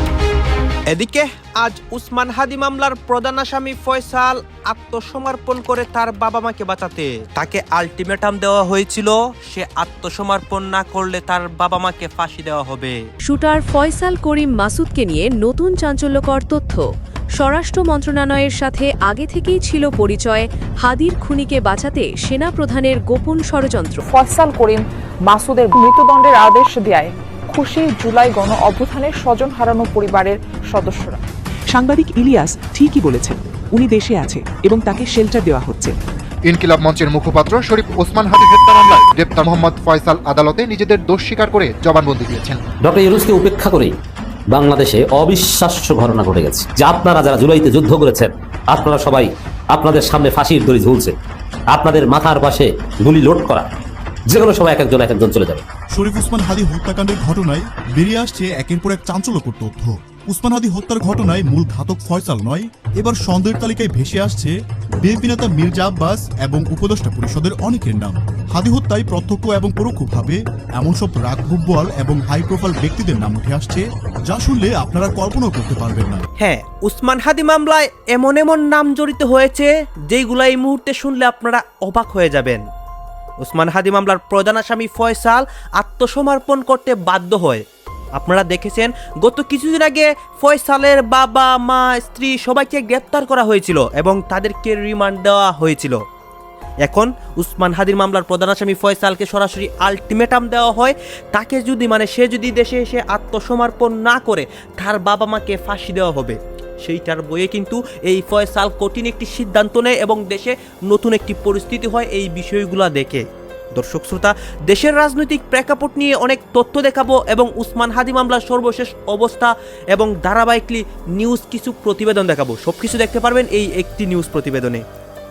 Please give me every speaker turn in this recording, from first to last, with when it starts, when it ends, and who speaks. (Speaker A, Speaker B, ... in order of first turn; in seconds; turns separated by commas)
Speaker A: 0.9-13.0, Speaker B: 13.2-16.8, Speaker B: 17.4-24.0, Speaker C: 24.1-31.2, Speaker D: 31.7-36.0, Speaker E: 36.4-42.6, Speaker F: 42.8-43.9, Speaker F: 44.5-51.1, Speaker F: 51.7-53.7, Speaker F: 54.3-55.6, Speaker G: 55.9-76.2, Speaker A: 76.4-82.6, Speaker A: 83.4-87.6, Speaker A: 88.2-96.0, Speaker A: 96.8-124.8